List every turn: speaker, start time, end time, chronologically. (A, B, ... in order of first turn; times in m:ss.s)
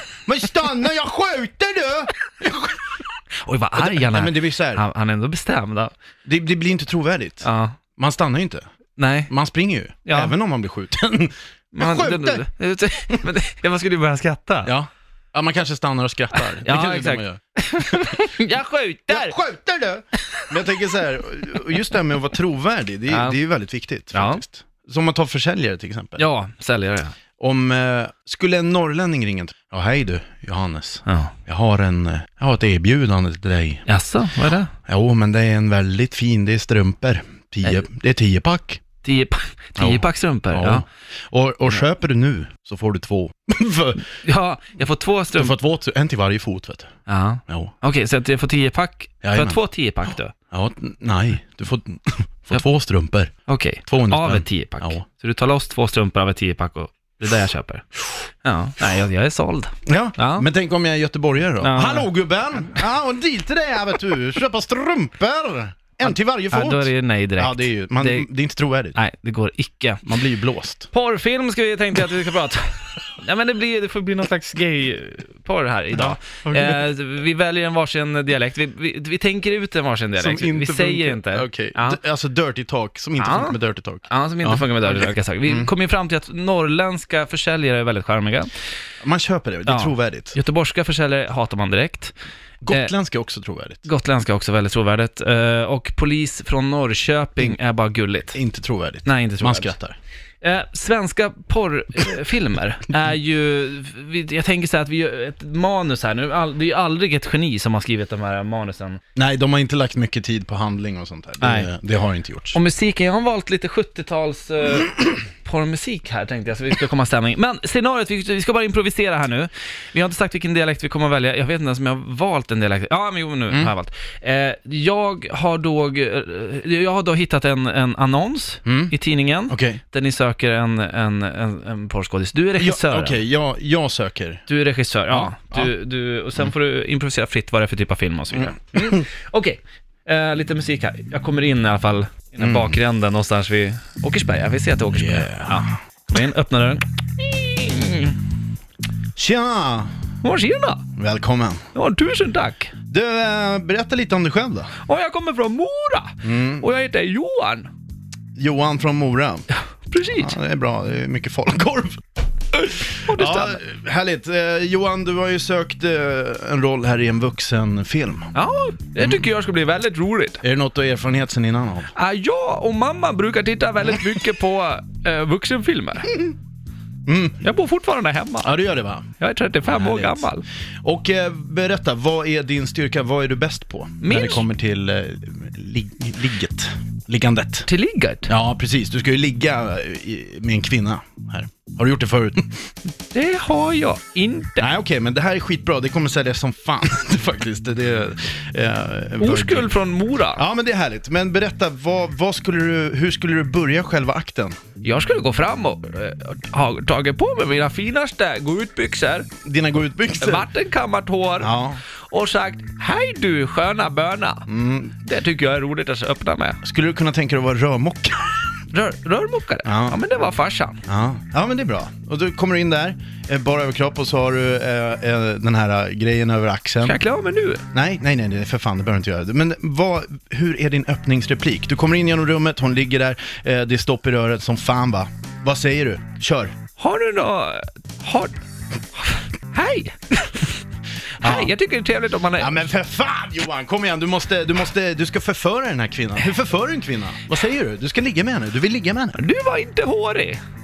0:00.3-0:02.9 A
0:03.4-0:05.9 B
0:03.8-0:04.8 A
0:06.2-0:08.6 A
0:07.4-0:07.8 B
0:09.0-0:09.3 B
0:09.3-0:12.5 A
0:10.0-0:10.3 B
0:11.7-0:14.7 B
0:14.7-0:18.3 A
0:16.4-0:19.4 B
0:19.1-0:26.2 A
0:23.1-0:23.4 B
0:24.1-0:24.4 B
0:26.2-0:27.2 B
0:27.4-0:33.8 A
0:31.0-0:31.3 B
0:33.9-0:34.7 B
0:34.9-0:38.8 A
0:39.0-0:40.8 B
0:39.8-0:44.1 A
0:44.2-0:45.6 B
0:45.3-0:46.9 A
0:47.1-0:50.3 B
0:47.5-0:47.7 A
0:49.2-0:53.3 A
0:53.5-1:00.5 B
0:53.9-0:55.0 A
0:59.8-1:09.0 A
1:01.6-1:02.1 B
1:06.0-1:08.3 B
1:08.9-1:10.1 B
1:10.0-1:10.9 A
1:10.9-1:22.0 B
1:15.9-1:16.9 A
1:20.2-1:25.7 A
1:23.2-1:23.6 B
1:24.1-1:28.5 B
1:29.0-1:30.4 A
1:29.7-1:32.1 B
1:32.6-1:33.8 A
1:33.8-1:38.4 B
1:38.3-1:40.0 A
1:39.0-1:39.7 B
1:40.4-1:49.0 B
1:49.2-1:52.6 A
1:51.4-1:51.7 B
1:52.5-2:13.2 B
2:08.7-2:08.9 A
2:09.5-2:09.8 A
2:12.6-2:14.4 A
2:14.5-2:28.2 B
2:15.1-2:15.7 A
2:18.3-2:19.1 A
2:22.4-2:22.8 A
2:24.9-2:25.7 A
2:29.2-2:29.9 A
2:30.2-2:30.8 B
2:31.0-2:31.6 A
2:31.7-2:32.7 B
2:32.9-2:34.7 A
2:34.8-2:37.7 B
2:36.2-2:36.7 A
2:38.4-2:39.5 A
2:39.9-2:40.4 B
2:40.1-2:42.0 A
2:42.5-2:48.3 A
2:43.0-2:43.6 B
2:48.3-2:50.4 B
2:49.0-2:49.2 A
2:50.4-2:51.9 A
2:51.9-2:56.3 B
2:57.1-2:57.4 A
2:57.4-2:58.6 B
2:58.4-2:59.1 A
2:59.2-3:00.4 B
2:59.6-3:00.3 A
3:00.8-3:07.7 A
3:04.0-3:04.5 B
3:07.7-3:08.3 B
3:08.3-3:12.6 A
3:13.1-3:14.7 B
3:14.6-3:19.8 A
3:19.2-3:20.4 B
3:20.3-3:24.6 A
3:24.8-3:29.3 B
3:29.4-3:30.5 A
3:30.2-3:31.6 B
3:31.4-3:31.8 A
3:32.1-3:34.4 B
3:34.5-3:35.0 A
3:35.0-3:36.6 B
3:36.6-3:38.6 A
3:38.7-3:40.8 B
3:39.6-3:40.0 A
3:40.8-3:47.0 A
3:46.8-3:47.6 B
3:47.7-3:56.5 A
3:56.8-3:58.3 B
3:59.0-4:00.6 B
4:01.2-4:02.7 B
4:01.2-4:01.5 A
4:02.4-4:09.2 A
4:09.2-4:10.4 B